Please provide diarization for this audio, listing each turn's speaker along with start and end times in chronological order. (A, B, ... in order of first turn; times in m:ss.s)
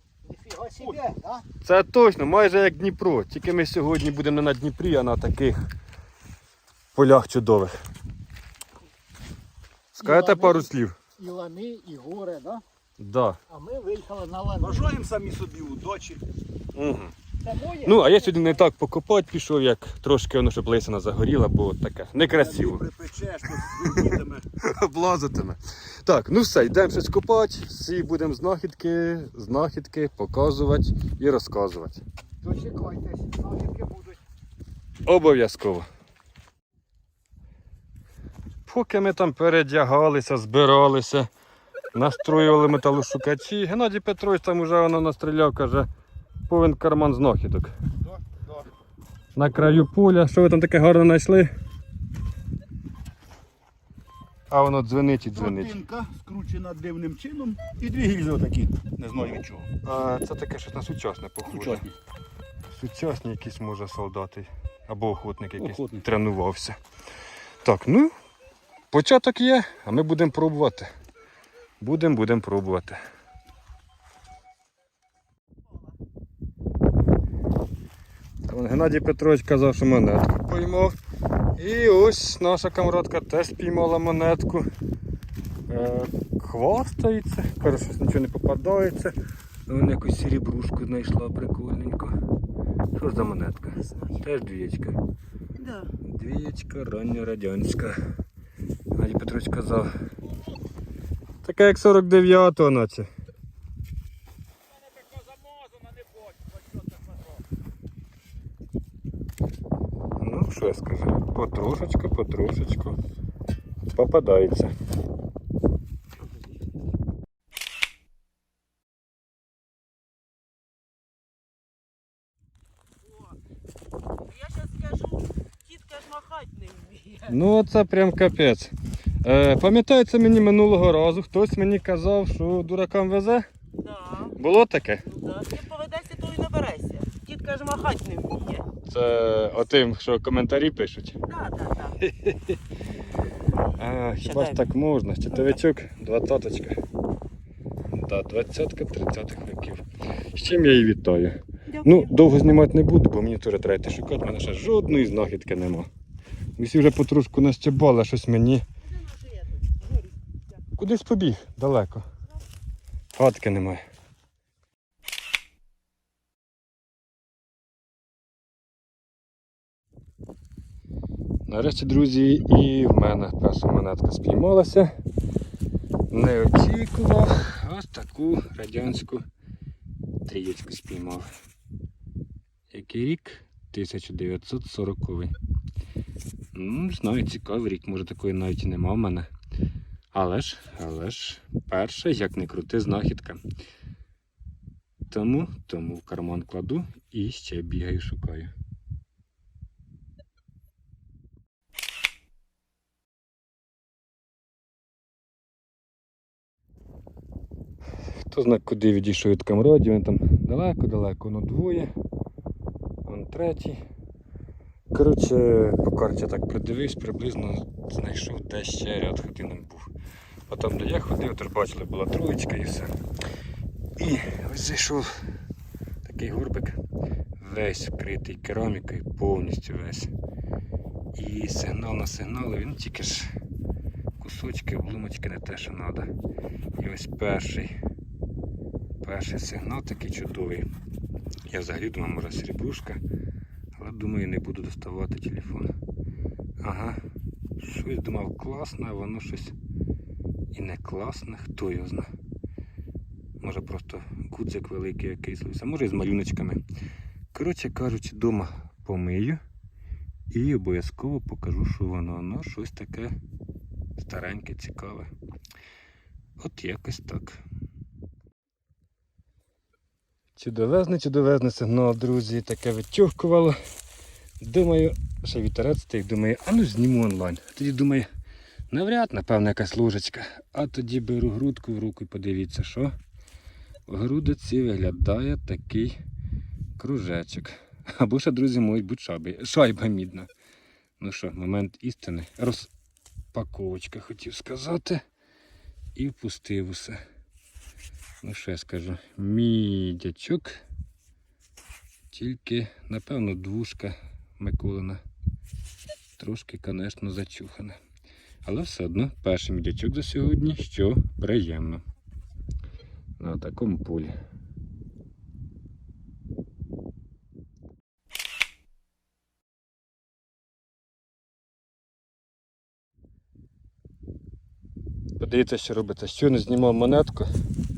0:00.2-0:01.4 A
0:00.8-0:01.1 B
0:01.6-0:05.5 C
0:07.0-0:07.7 C
0:09.9-0:10.9 C
0:10.0-0:12.6 A
0:13.0-0:13.4 C
0:13.5-0:14.9 A
0:14.6-0:16.3 B
0:16.8-0:17.1 C
0:17.4-0:18.7 A
0:17.9-0:22.8 C
0:22.2-0:24.5 B
0:23.5-0:32.0 C
0:32.4-0:34.2 A
0:35.1-0:35.8 C
0:38.7-0:41.3 C
0:41.9-0:45.9 C
0:46.5-0:47.7 C
0:49.4-0:51.4 C
0:54.5-0:55.8 C
0:55.3-0:59.7 B
0:59.8-1:01.8 C
1:01.5-1:01.9 B
1:02.7-1:06.7 C
1:05.6-1:06.0 B
1:07.6-1:08.1 C
1:08.9-1:10.9 C
1:11.8-1:13.0 C
1:18.5-1:20.9 C
1:21.6-1:24.6 C
1:25.7-1:29.1 C
1:29.7-1:32.1 C
1:33.0-1:35.0 C
1:33.8-1:34.2 D
1:35.6-1:35.9 D
1:36.0-1:37.9 C
1:38.9-1:39.9 C
1:41.4-1:43.1 C
1:44.8-1:47.4 B
1:50.2-1:53.0 C
1:54.0-1:54.7 C
2:03.0-2:03.4 D
2:04.2-2:07.4 D
2:07.3-2:08.7 C
2:09.2-2:13.4 C
2:13.8-2:14.4 D
2:14.4-2:15.0 C
2:15.0-2:18.7 D
2:18.9-2:21.2 C
2:21.2-2:22.0 D
2:22.0-2:22.6 C
2:23.8-2:26.7 C
2:24.2-2:24.7 D
2:25.3-2:25.6 D
2:27.9-2:31.3 C
2:31.7-2:32.1 D
2:31.8-2:35.9 C
2:36.6-2:38.6 C
2:38.8-2:40.1 D
2:40.8-2:42.0 C
2:43.1-2:43.8 C
2:51.5-2:54.9 C
2:56.1-2:59.2 C
3:00.3-3:01.2 C
3:02.7-3:05.3 C
3:06.6-3:09.3 C
3:10.1-3:13.4 C
3:15.1-3:18.5 C
3:28.3-3:31.9 C
3:33.0-3:33.8 C
3:34.9-3:39.9 C
3:40.5-3:42.9 C
3:44.0-3:45.1 C
3:46.0-3:46.8 C
3:47.4-3:50.1 C
3:51.2-3:53.2 C
3:54.2-3:56.0 C
3:56.8-3:57.7 C
3:59.0-4:00.6 C
4:01.5-4:03.0 C
4:03.8-4:05.7 C
4:06.6-4:07.0 C
4:07.6-4:09.5 C
4:10.5-4:12.0 C
4:13.4-4:16.6 C
4:17.3-4:19.4 C
4:20.3-4:23.1 C
4:24.0-4:25.1 C
4:26.4-4:27.4 C
4:30.4-4:33.6 C
4:34.4-4:38.0 C
4:38.7-4:42.9 C
4:43.9-4:45.9 C
4:46.8-4:50.3 C
4:51.0-4:52.7 C
4:53.3-4:55.0 C
4:56.0-4:57.0 C
4:58.2-5:00.5 C
5:02.1-5:05.0 C
5:06.2-5:07.8 C
5:08.4-5:11.8 C
5:13.2-5:14.1 C
5:25.2-5:27.3 C